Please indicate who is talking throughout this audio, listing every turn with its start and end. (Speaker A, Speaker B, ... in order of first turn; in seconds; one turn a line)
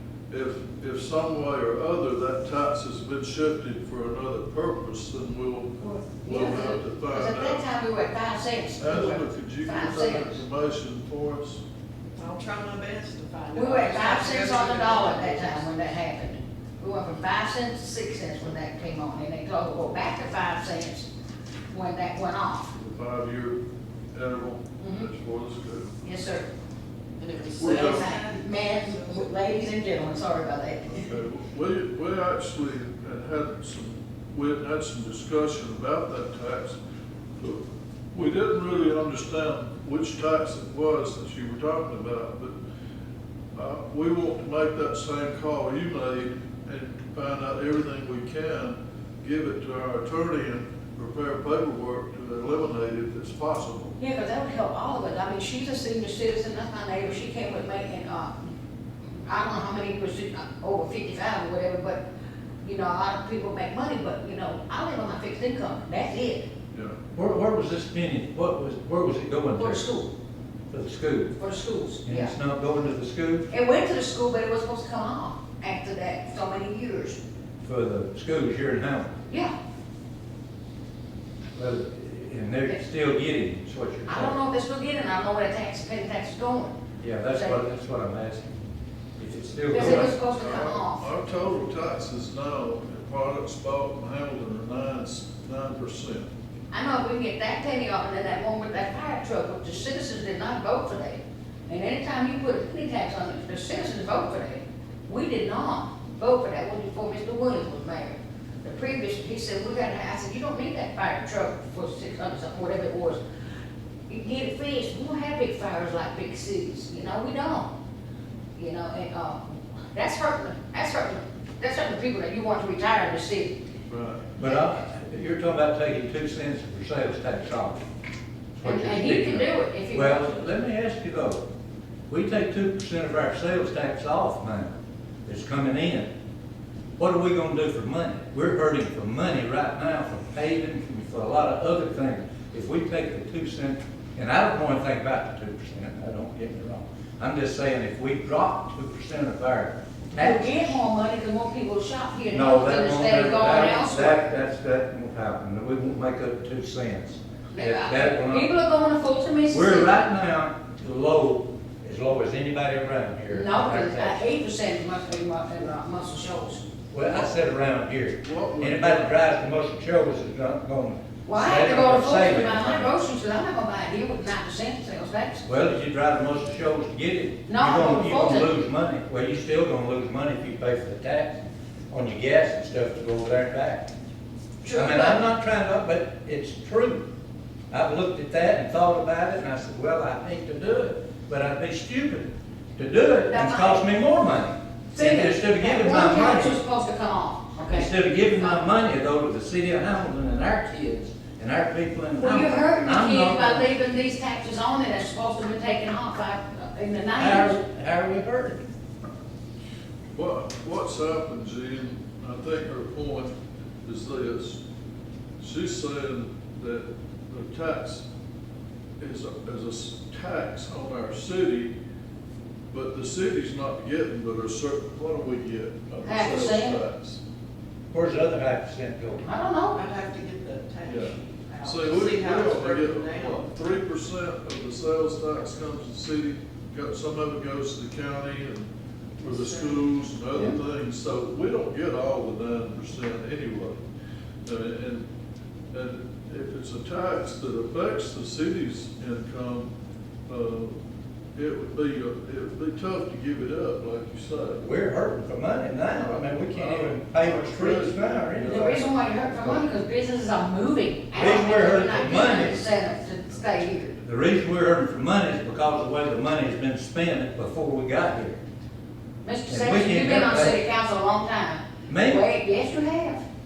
Speaker A: 0.3-7.6
Speaker B: 6.2-10.4
Speaker A: 8.8-11.6
Speaker C: 12.2-15.7
Speaker B: 13.5-21.1
Speaker B: 21.7-22.7
Speaker A: 22.7-23.6
Speaker A: 24.1-25.9
Speaker B: 24.8-25.1
Speaker B: 26.0-26.5
Speaker C: 27.2-29.2
Speaker A: 27.6-28.1
Speaker B: 27.6-31.0
Speaker A: 30.9-36.8
Speaker A: 37.4-42.6
Speaker A: 43.5-53.9
Speaker B: 54.0-58.4
Speaker B: 59.3-62.0
Speaker B: 62.6-66.5
Speaker A: 66.7-67.0
Speaker D: 67.2-69.8
Speaker B: 69.5-70.1
Speaker D: 70.7-71.3
Speaker B: 71.4-72.3
Speaker D: 72.1-73.5
Speaker B: 73.5-77.2
Speaker D: 77.6-79.1
Speaker D: 81.5-84.3
Speaker B: 84.1-86.7
Speaker D: 87.0-88.5
Speaker B: 87.3-87.6
Speaker D: 89.2-90.1
Speaker B: 89.7-91.0
Speaker A: 89.7-96.3
Speaker B: 96.7-113.2
Speaker B: 114.1-117.7
Speaker B: 118.6-123.6
Speaker A: 123.9-124.3
Speaker B: 124.4-124.7
Speaker D: 124.4-127.8
Speaker D: 128.6-131.4
Speaker B: 128.6-130.3
Speaker D: 132.1-134.7
Speaker D: 135.2-136.1
Speaker D: 137.0-150.5
Speaker B: 150.1-154.2
Speaker D: 152.3-158.5
Speaker B: 157.5-159.9
Speaker D: 159.5-164.2
Speaker B: 163.3-166.6
Speaker D: 166.9-172.9
Speaker A: 168.2-169.1
Speaker B: 171.2-175.4
Speaker D: 175.4-183.9
Speaker B: 177.5-178.5
Speaker B: 184.6-185.2
Speaker D: 184.7-187.0
Speaker D: 187.7-196.6
Speaker B: 193.3-193.8
Speaker B: 194.9-198.6
Speaker D: 197.7-203.7
Speaker B: 202.2-207.6
Speaker D: 207.2-208.6
Speaker A: 210.1-214.6
Speaker A: 215.4-218.0
Speaker A: 219.0-221.7
Speaker A: 222.7-227.2
Speaker B: 226.0-226.8
Speaker D: 227.9-229.2
Speaker B: 229.2-229.8
Speaker C: 229.7-233.5
Speaker A: 230.8-243.8
Speaker C: 239.2-239.9
Speaker A: 244.4-245.1
Speaker A: 245.7-249.7
Speaker A: 250.3-250.8
Speaker A: 251.3-254.6
Speaker D: 254.6-258.8
Speaker A: 256.0-259.2
Speaker B: 258.4-264.0
Speaker D: 261.1-262.7
Speaker D: 264.0-268.4
Speaker B: 269.2-273.2
Speaker D: 269.5-270.6
Speaker D: 271.9-272.2